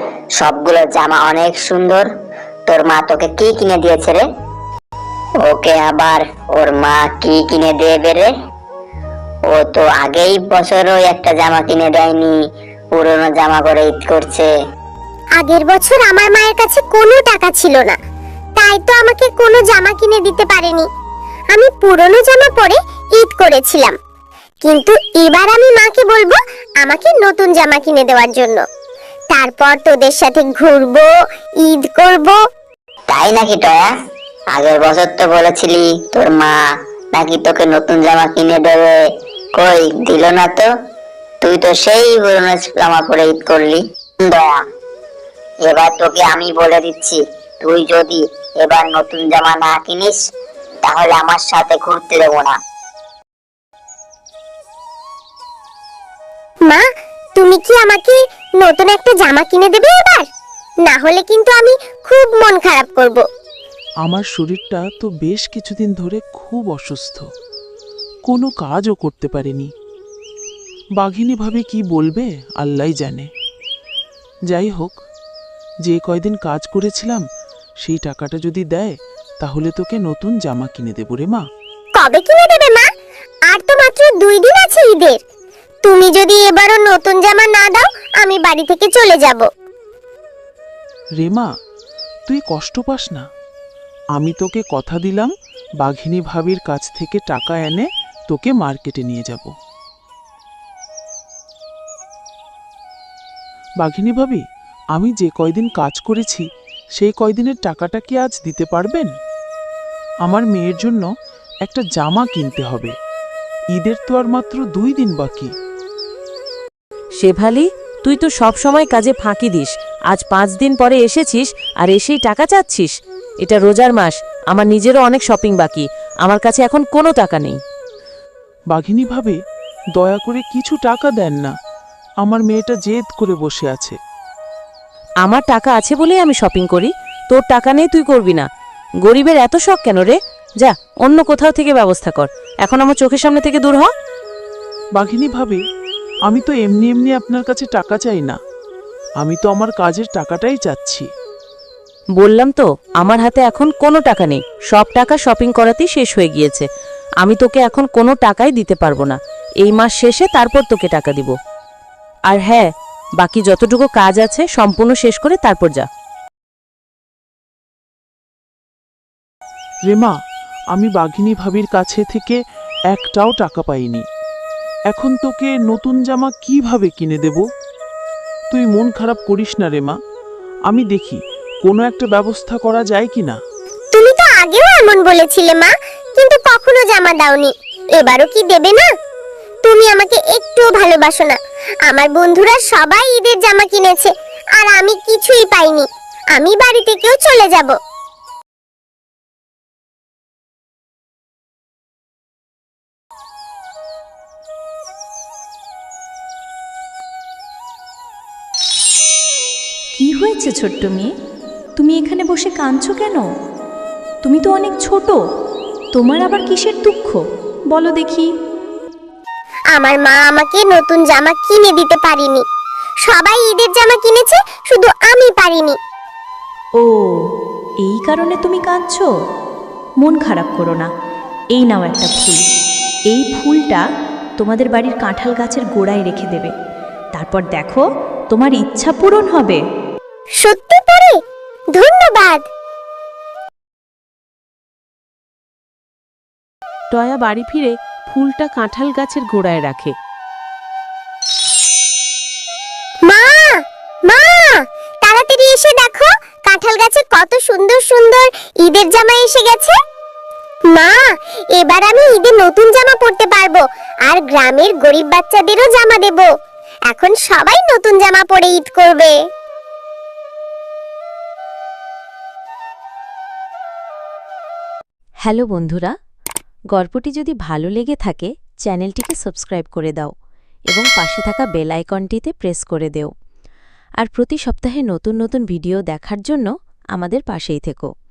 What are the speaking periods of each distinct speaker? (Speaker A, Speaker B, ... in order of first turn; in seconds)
Speaker A: 0.4-2.1, 2.7-4.2, 5.4-8.3, 9.5-12.4, 12.9-14.5, 33.1-33.9, 34.5-36.6, 37.1-38.9, 39.6-40.7, 41.4-44.6, 45.6-50.2, 50.9-52.5
Speaker B: 15.4-18.0, 18.6-20.9, 21.5-23.9, 24.6-28.6, 29.3-31.1, 31.6-32.4, 57.4-60.3, 60.9-63.2, 82.0-82.8, 83.5-85.2, 85.8-89.5, 183.9-188.9, 189.6-197.8, 219.7-222.4, 223.0-225.8, 240.4-241.2, 241.7-242.4, 253.1-259.8, 260.7-261.0, 261.6-266.3, 266.9-269.1
Speaker C: 64.0-67.2, 68.3-69.7, 71.0-73.3, 74.5-75.0, 75.8-77.2, 77.8-81.5, 91.2-91.5, 92.3-93.2, 94.1-99.5, 103.8-104.4, 104.9-109.1, 110.2-111.1, 111.6-112.9, 113.7-115.5, 128.7-129.4, 129.9-131.5, 132.2-134.0, 144.9-145.6, 146.3-148.4, 149.2-151.1, 169.9-170.1, 170.7-174.1, 174.9-177.4, 178.5-180.0, 180.7-183.4
Speaker D: 117.2-127.6, 135.2-138.5, 139.0-143.9, 152.2-156.7, 157.2-161.3, 162.3-162.7, 163.2-165.9, 246.9-249.9
Speaker E: 209.9-211.1, 211.8-213.3, 214.2-215.2, 215.9-218.3, 226.8-227.2, 227.8-229.1, 230.0-230.9, 231.5-232.4, 233.1-233.8, 234.4-236.5, 237.1-239.6
Speaker F: 275.2-275.9, 276.7-280.1, 280.7-283.1, 284.0-287.9